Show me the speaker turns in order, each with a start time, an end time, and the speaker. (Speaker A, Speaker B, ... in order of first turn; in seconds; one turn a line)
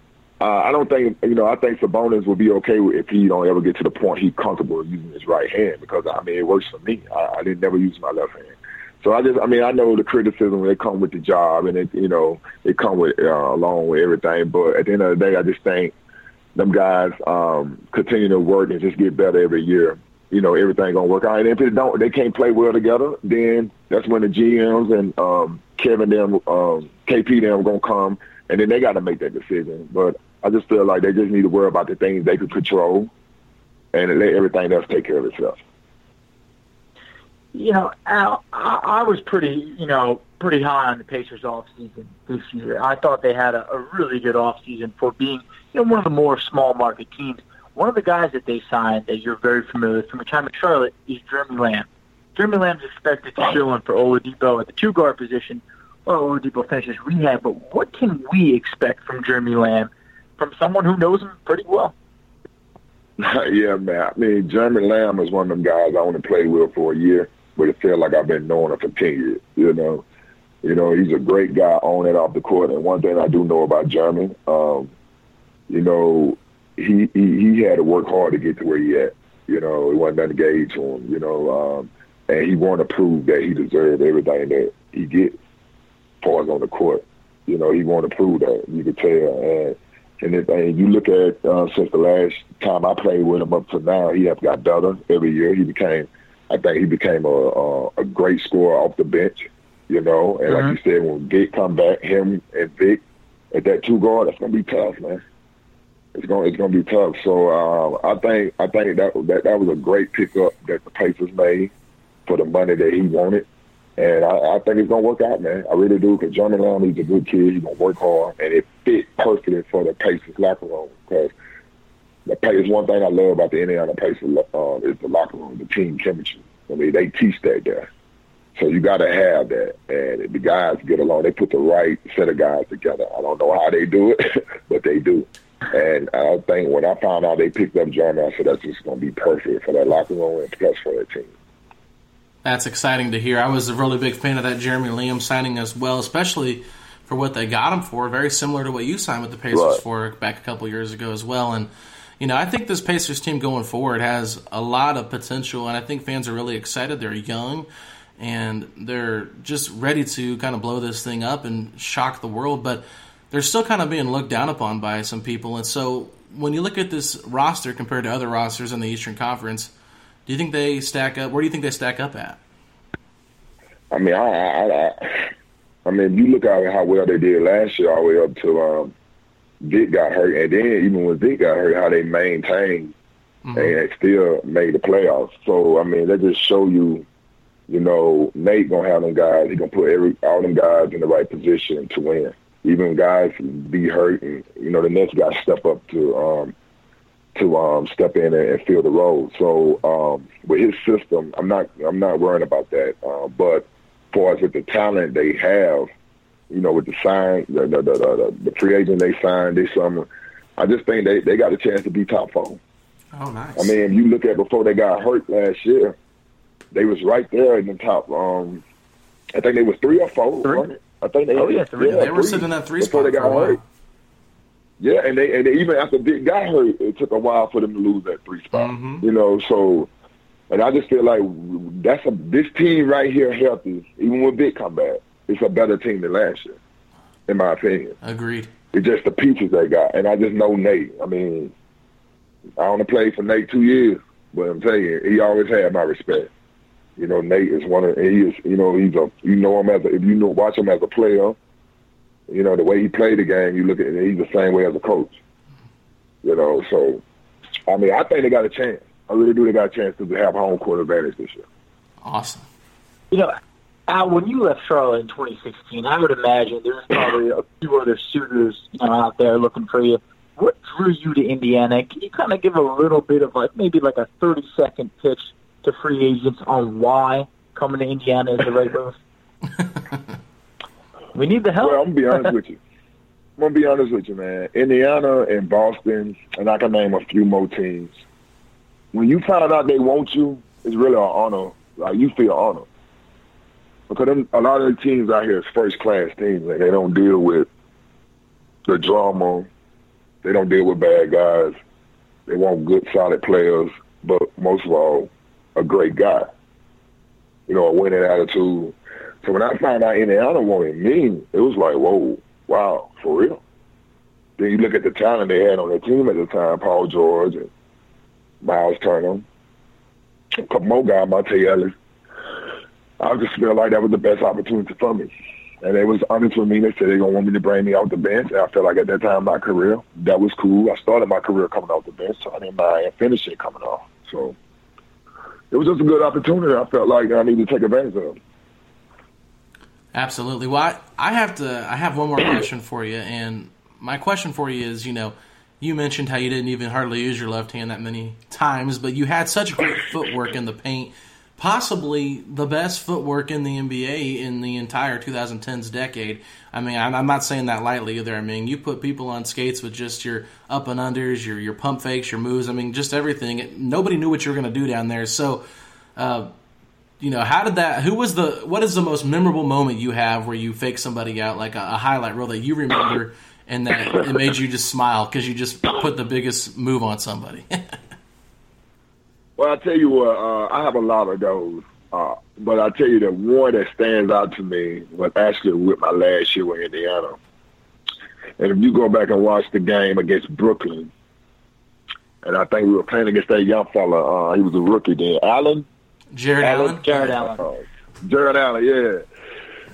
Speaker A: 0.4-15.9
Speaker A: 16.5-33.1
Speaker A: 33.9-35.6
Speaker B: 37.5-61.9
Speaker A: 63.2-70.0
Speaker A: 70.6-74.9
Speaker A: 75.7-85.4
Speaker A: 86.2-103.0
Speaker B: 100.5-100.7
Speaker A: 103.5-105.2
Speaker A: 106.1-111.7
Speaker A: 112.2-113.5
Speaker A: 114.0-121.3
Speaker A: 122.3-127.9
Speaker A: 128.5-141.3
Speaker C: 142.4-169.7
Speaker A: 149.5-149.8
Speaker C: 170.2-172.4
Speaker A: 173.9-175.3
Speaker A: 175.8-178.9
Speaker A: 179.6-182.9
Speaker C: 183.4-183.7
Speaker A: 183.5-187.0
Speaker A: 187.7-196.5
Speaker A: 197.3-205.9
Speaker A: 206.5-212.6
Speaker C: 213.1-213.7
Speaker A: 213.6-216.0
Speaker A: 216.7-218.6
Speaker A: 219.3-223.6
Speaker B: 221.3-222.1
Speaker C: 221.9-223.6
Speaker A: 224.8-229.9
Speaker C: 228.5-229.0
Speaker A: 230.5-236.6
Speaker A: 237.3-238.0
Speaker C: 238.0-238.5
Speaker A: 238.7-241.5
Speaker A: 242.6-246.3
Speaker A: 247.0-251.4
Speaker A: 252.3-255.1
Speaker A: 256.2-257.0
Speaker A: 257.7-261.4
Speaker C: 262.0-262.4
Speaker B: 263.9-279.0
Speaker B: 281.1-282.3
Speaker A: 281.6-282.6
Speaker A: 283.4-287.9
Speaker A: 288.9-292.6
Speaker A: 293.9-297.5
Speaker A: 298.7-299.5
Speaker A: 300.2-301.6
Speaker A: 302.3-306.3
Speaker A: 307.5-313.4
Speaker A: 314.4-317.5
Speaker A: 318.4-319.2
Speaker A: 320.4-321.7
Speaker A: 323.0-325.1
Speaker A: 325.6-334.4
Speaker A: 335.5-338.1
Speaker C: 339.9-365.4
Speaker C: 365.9-366.3
Speaker C: 367.0-377.8
Speaker A: 379.4-387.2
Speaker A: 388.4-390.9
Speaker A: 392.2-395.7
Speaker C: 396.1-397.1
Speaker A: 396.4-399.0
Speaker B: 396.8-397.4